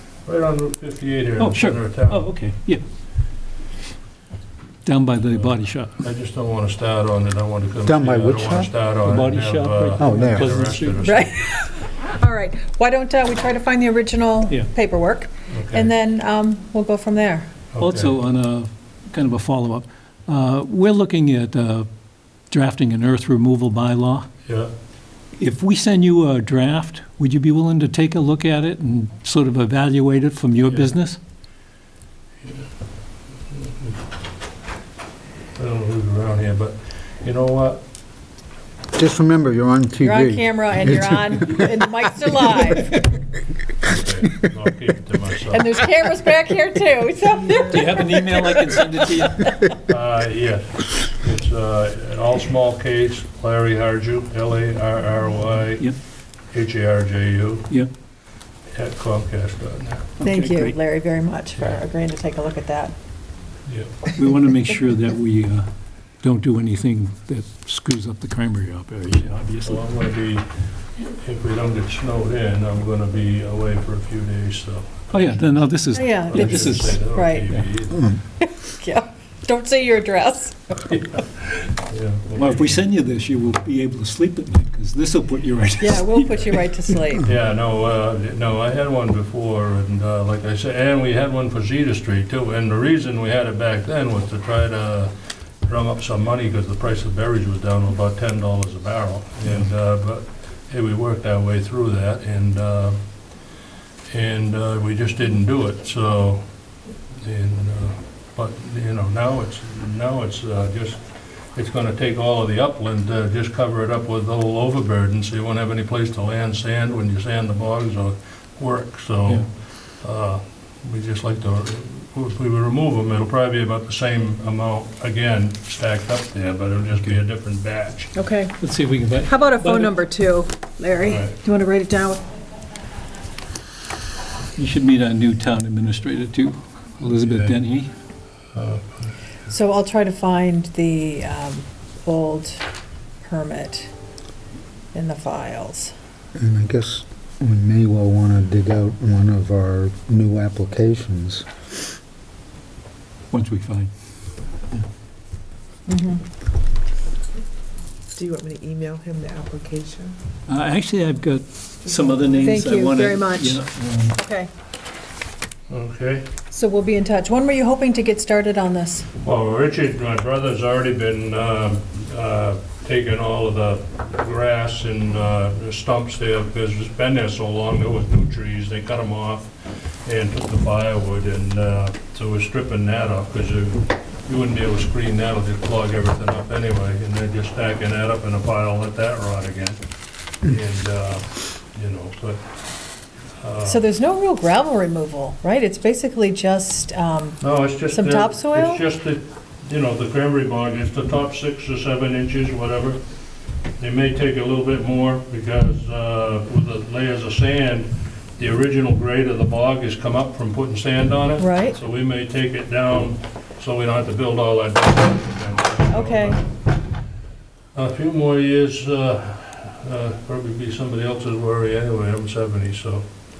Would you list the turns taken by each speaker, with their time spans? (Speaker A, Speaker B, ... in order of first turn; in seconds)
Speaker A: 0.2-2.3, 5.3-11.4, 15.5-15.9, 17.7-18.1, 24.4-24.7, 30.6-30.9, 32.4-32.7, 33.5-34.0, 35.5-37.8, 43.8-45.7, 49.7-55.9, 56.5-57.7, 58.7-60.1, 63.7-64.1, 69.6-70.5, 71.0-78.1, 80.9-82.8, 87.2-95.1, 95.6-103.0, 104.1-106.4, 107.2-119.4, 120.0-128.1, 131.0-131.4, 137.0-137.6, 138.5-139.1, 165.7-166.2, 169.2-189.8, 190.4-192.4, 193.4-193.8, 197.4-203.0, 203.8-216.4, 217.7-223.0
Speaker B: 1.4-2.8, 4.8-6.0, 9.0-11.1, 17.8-21.9, 22.5-24.3, 25.4-31.2, 47.7-49.6, 60.2-60.8, 64.1-65.7, 66.2-69.8, 75.1-77.7, 82.3-86.7, 128.6-129.9, 134.5-137.9, 153.3-153.9, 160.5-164.2
Speaker C: 7.8-8.7, 10.0-10.5, 38.9-41.3, 146.3-151.4
Speaker D: 11.0-17.5, 40.0-43.0, 45.5-48.8, 60.2-62.9, 75.9-77.5, 78.4-80.8, 85.8-87.3, 128.1-128.5, 129.2-132.2, 139.5-142.6, 143.2-143.9, 144.9-145.9, 155.9-156.2, 162.4-164.5, 166.5-169.1, 193.6-198.8, 211.4-211.7, 215.9-216.4
Speaker E: 158.1-160.1, 161.8-162.6